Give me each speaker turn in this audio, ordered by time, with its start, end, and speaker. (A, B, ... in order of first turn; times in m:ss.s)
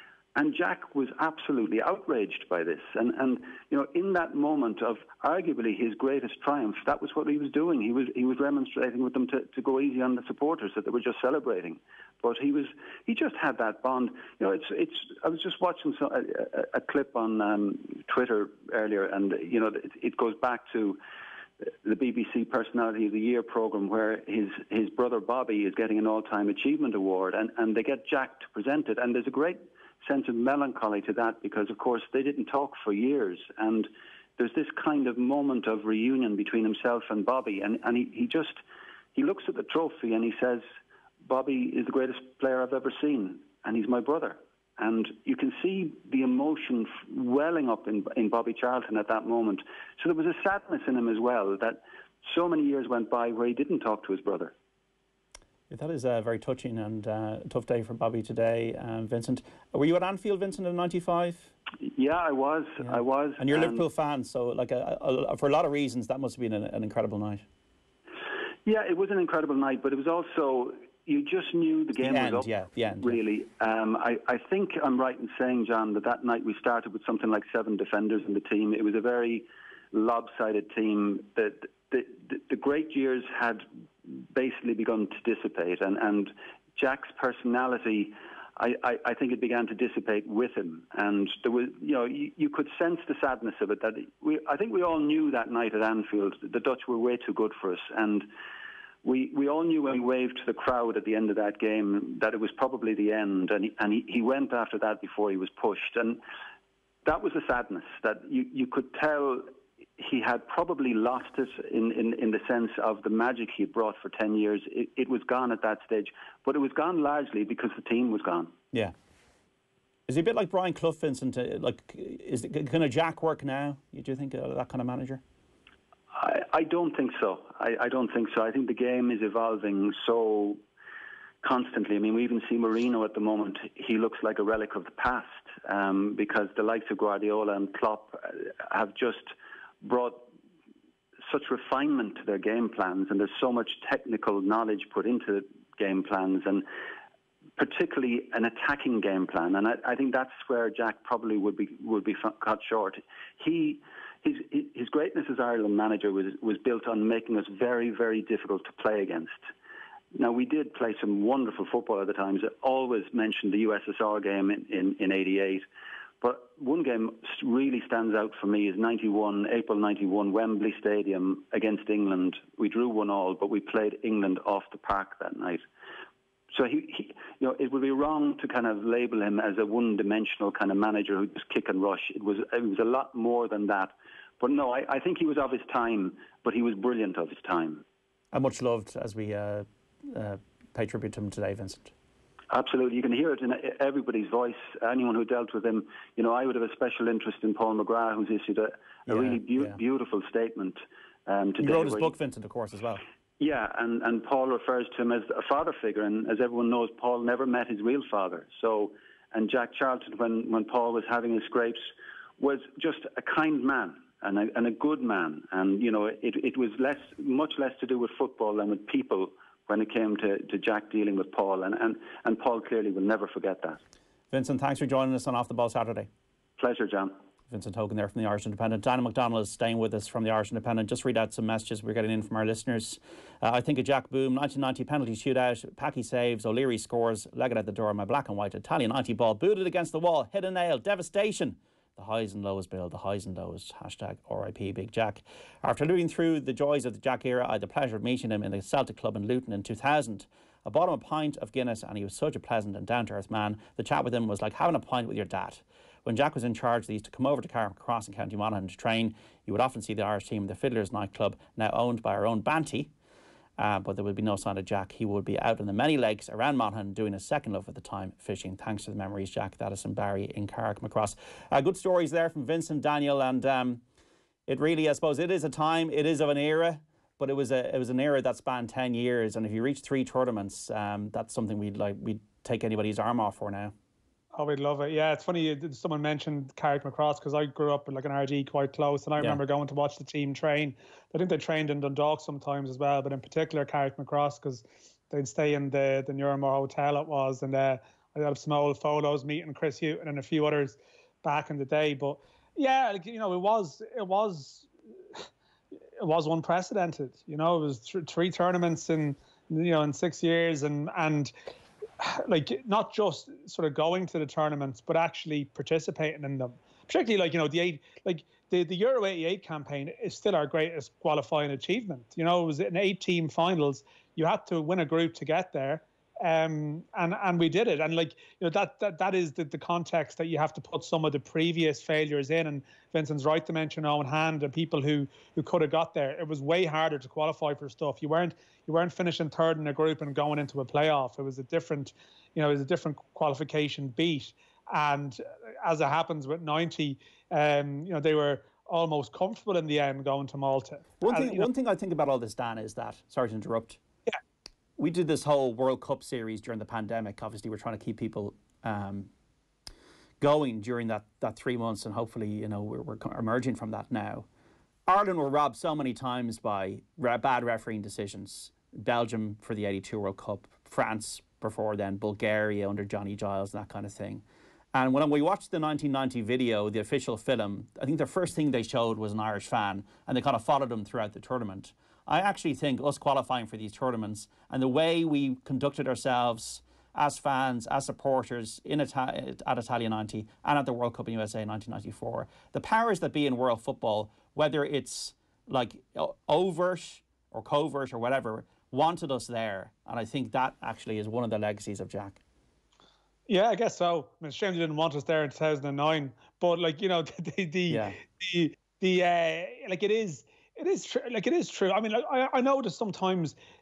0:00.4-0:21.0 A
0:21.6-0:38.6 A
0:39.2-0:40.6 A
0:41.2-0:54.5 A
0:55.7-1:01.5 B
1:01.8-1:03.8 A
1:02.8-1:07.4 B
1:08.6-1:38.3 A
1:12.0-1:13.2 B
1:39.0-1:46.2 A
1:47.0-1:58.5 A
2:00.1-2:05.2 B
2:06.1-2:10.6 A
2:11.4-2:20.3 A
2:21.3-2:26.7 A
2:27.6-2:39.4 A
2:40.1-2:45.6 A
2:46.2-2:55.6 A
2:56.5-3:07.8 A
3:08.3-3:11.9 B
3:12.5-3:22.1 A
3:19.1-3:19.8 B
3:21.6-3:23.0 B
3:23.4-3:43.8 A
3:44.3-3:46.1 B
3:46.6-3:47.2 A
3:47.5-4:22.9 B
4:23.6-4:33.8 B
4:34.5-4:43.7 B
4:44.3-5:05.2 C
5:06.0-5:11.3 C
5:12.0-5:51.4 C
5:51.0-5:53.8 B
5:54.8-5:59.1 B
6:00.2-6:04.3 B
6:04.9-6:14.2 B
6:14.7-6:42.2 B
6:43.3-6:53.4 C
6:47.7-6:48.0 B